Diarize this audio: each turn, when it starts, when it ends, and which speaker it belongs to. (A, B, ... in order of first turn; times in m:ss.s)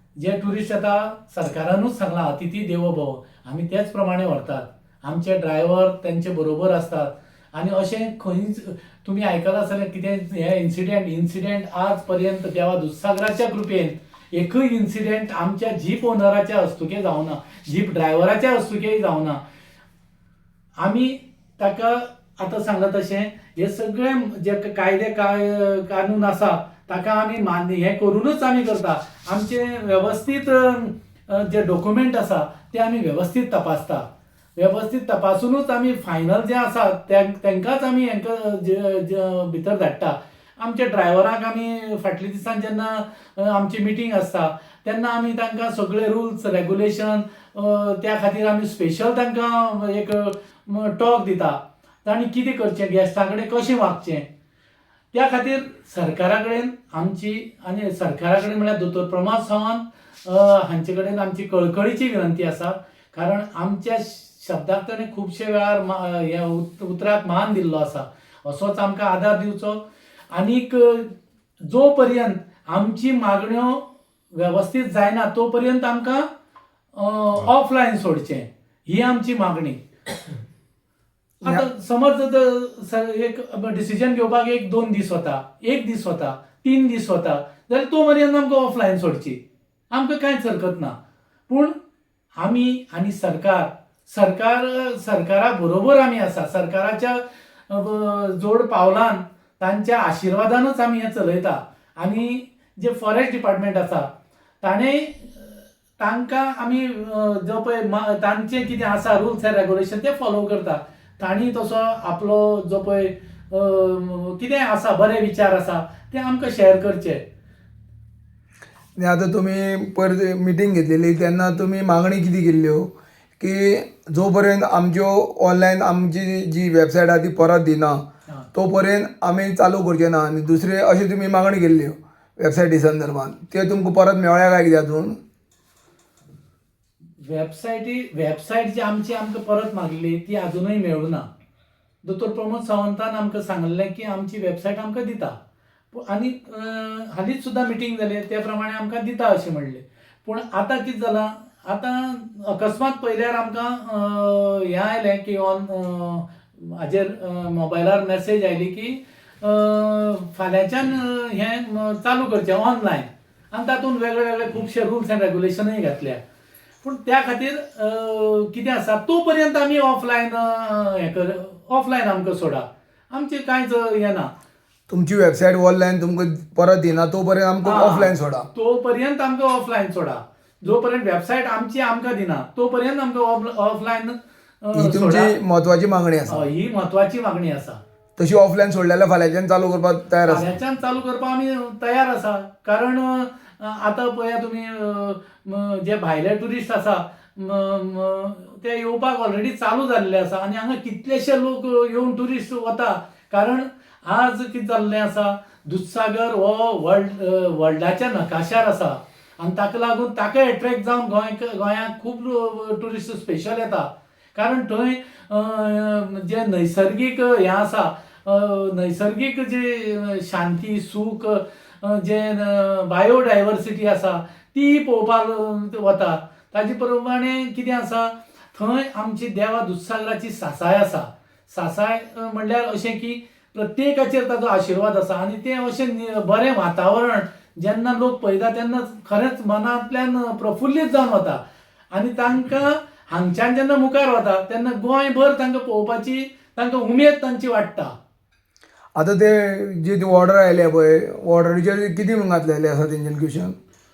0:00.2-0:19.4 A
0:20.8-0:34.1 A
0:34.6-0:54.3 A
0:55.1-1:09.8 A
1:10.3-1:16.3 A
1:17.0-1:19.8 A
1:21.4-1:29.4 A
1:29.9-1:31.0 A
1:31.5-1:31.7 A
1:32.4-1:44.1 A
1:44.6-1:57.2 A
1:59.0-2:08.0 B
2:08.5-2:15.2 B
2:17.2-2:21.3 A
2:22.0-2:25.4 A
2:25.9-2:46.2 A
2:46.8-2:54.3 A
2:54.9-2:58.5 B
2:57.6-3:05.3 A
3:04.8-3:06.5 B
3:06.3-3:07.8 A
3:08.2-3:10.5 B
3:10.3-4:01.4 A
4:01.9-4:07.9 A
4:09.0-4:13.6 B